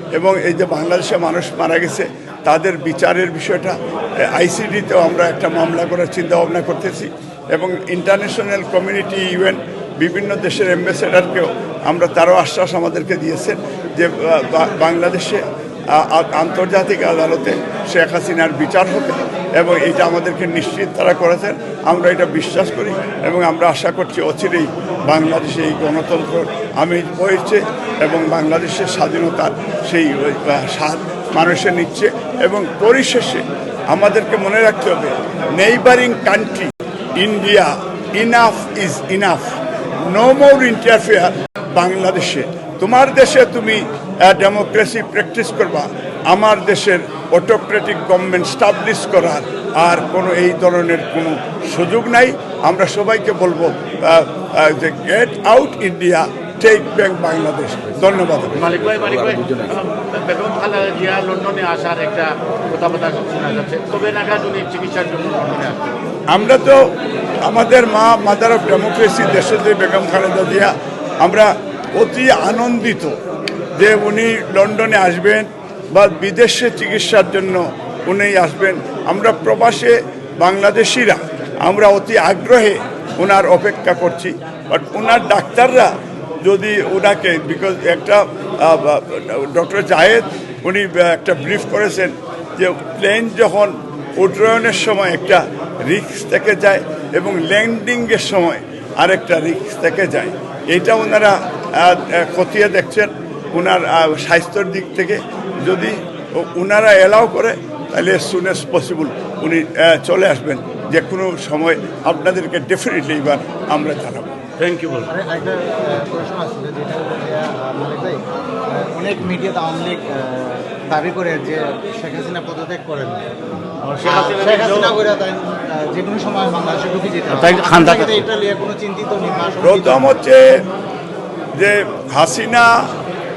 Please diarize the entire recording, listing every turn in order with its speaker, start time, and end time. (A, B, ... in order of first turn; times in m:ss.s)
0:00.1-0:58.7 A
0:58.6-1:05.9 B
1:06.3-1:06.9 A
1:07.4-1:13.2 A
1:13.8-1:54.3 A
1:54.6-1:55.1 B
1:55.1-2:03.2 C
2:03.8-2:05.0 B
2:04.0-2:10.2 C
2:07.4-2:08.2 B
2:09.6-2:10.6 A
2:11.6-2:12.8 A